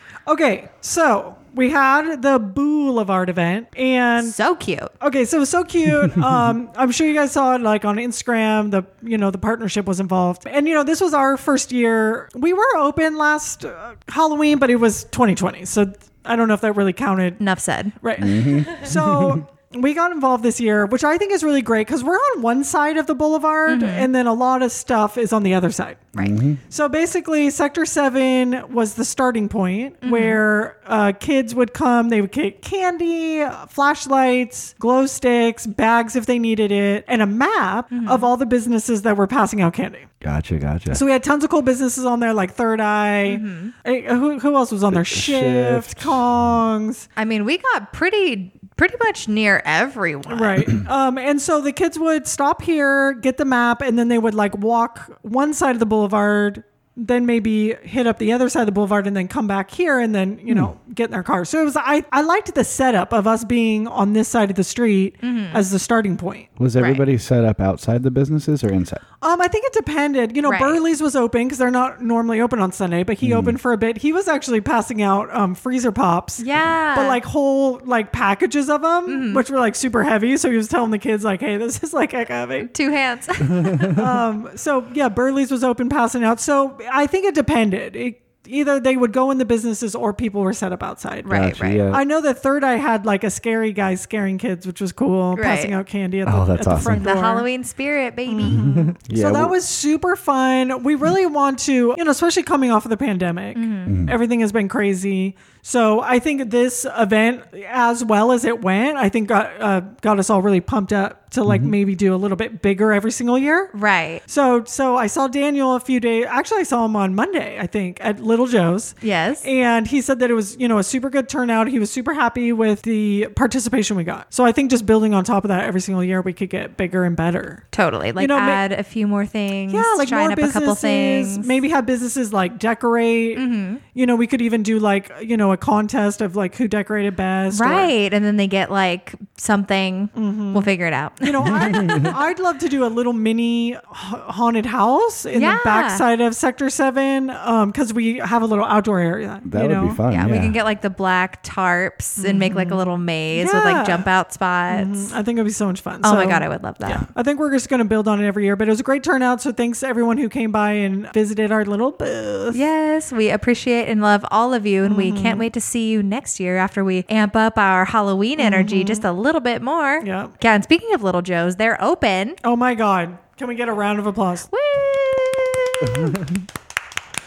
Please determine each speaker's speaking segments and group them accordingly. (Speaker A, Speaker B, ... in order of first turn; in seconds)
Speaker A: 0.3-4.4, 5.0-17.4, 18.0-26.1, 26.7-40.1, 40.9-47.1, 50.3-66.5, 69.2-82.7, 83.9-97.5, 98.3-113.7, 114.3-127.7, 128.2-128.6, 129.7-137.9, 140.2-140.7, 141.2-150.0, 152.2-154.1, 154.7-162.6, 164.8-165.5, 168.4-169.1, 170.0-170.3, 172.4-174.5
Speaker B: 4.2-4.9, 17.4-17.9, 23.7-24.1, 30.0-30.4, 37.9-38.3, 43.3-43.7, 47.2-50.7, 65.2-65.6, 66.8-67.0, 70.4-70.8, 76.4-77.2, 79.1-79.5, 82.7-84.0, 91.2-91.8, 95.3-95.8, 97.0-98.7, 103.5-103.9, 113.7-114.2, 119.0-119.5, 127.7-131.5, 133.3-133.8, 137.5-141.9, 145.3-146.0, 150.1-155.1, 156.0-157.1, 162.5-172.4, 174.5-176.2
Speaker C: 18.2-19.4, 26.2-26.6, 40.2-41.0, 44.9-46.3, 66.6-69.0, 73.2-73.6, 83.5-84.0, 91.3-92.0, 96.3-97.1, 98.4-99.6, 103.9-104.2, 111.5-111.8, 141.7-142.1, 149.4-150.6